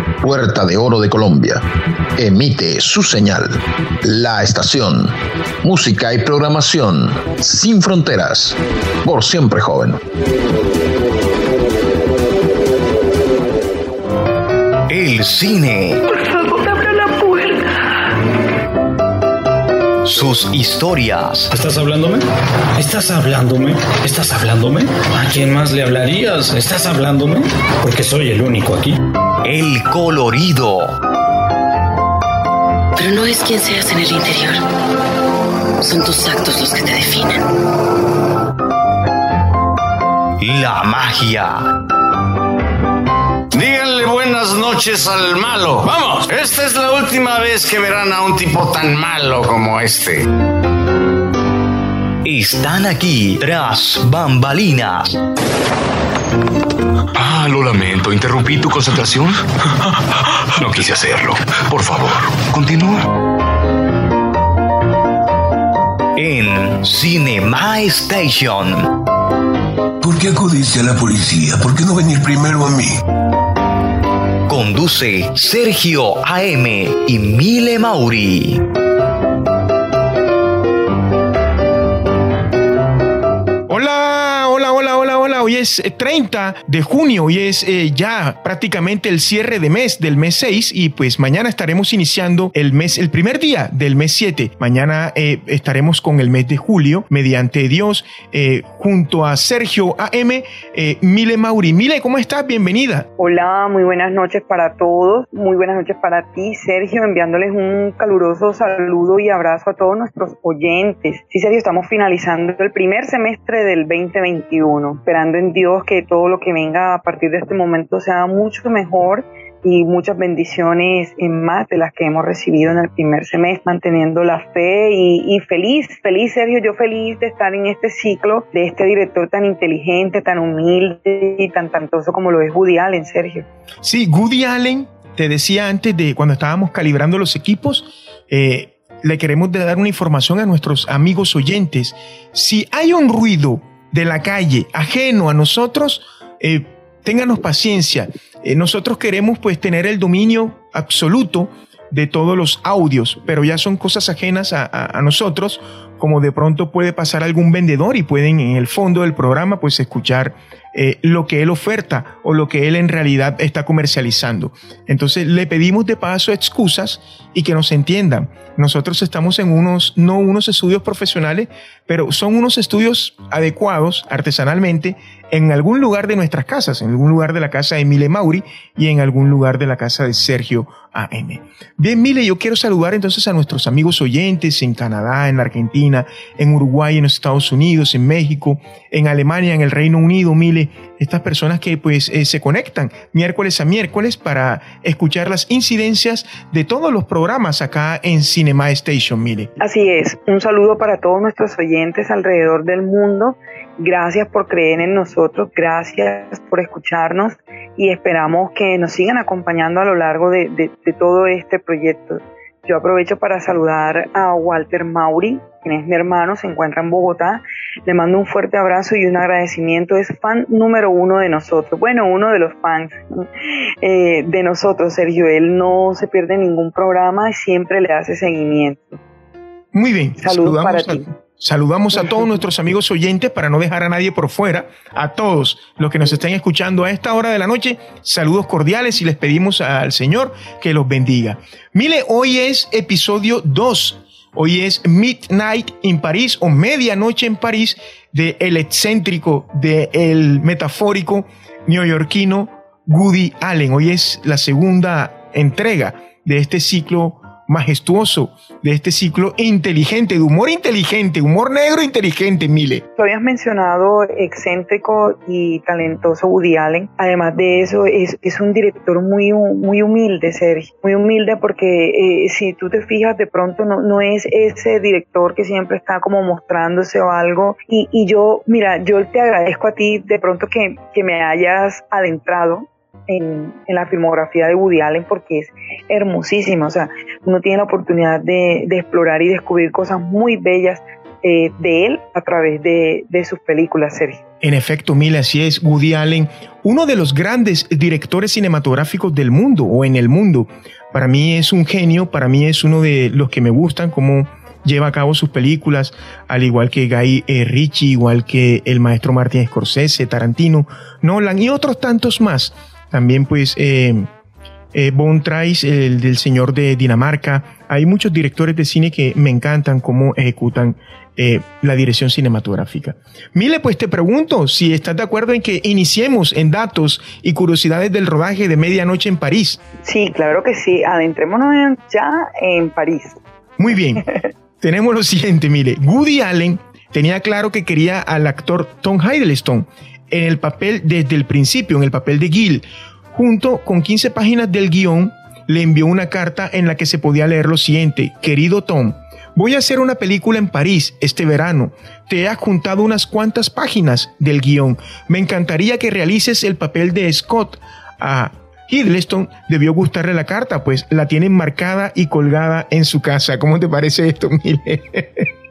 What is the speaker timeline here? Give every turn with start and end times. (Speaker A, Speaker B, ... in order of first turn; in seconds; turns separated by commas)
Speaker A: 0.2-1.6, Speaker A: 2.2-10.0, Speaker B: 14.9-16.0, Speaker C: 16.3-17.5, Speaker B: 20.0-21.5, Speaker D: 21.5-22.2, Speaker D: 22.8-29.0, Speaker B: 29.4-30.9, Speaker E: 33.0-34.6, Speaker E: 35.8-37.4, Speaker B: 40.4-41.7, Speaker F: 43.5-50.2, Speaker B: 52.2-55.2, Speaker G: 57.2-59.4, Speaker G: 60.6-62.9, Speaker B: 66.2-68.9, Speaker H: 70.0-73.0, Speaker B: 74.5-78.6, Speaker I: 83.7-103.1, Speaker C: 103.2-133.4, Speaker I: 133.8-199.5, Speaker C: 199.6-229.0, Speaker I: 229.7-262.8, Speaker C: 230.2-231.1, Speaker C: 263.0-294.2, Speaker I: 294.4-314.1, Speaker I: 314.7-329.6, Speaker C: 329.8-333.2, Speaker I: 333.6-334.1, Speaker I: 334.6-365.3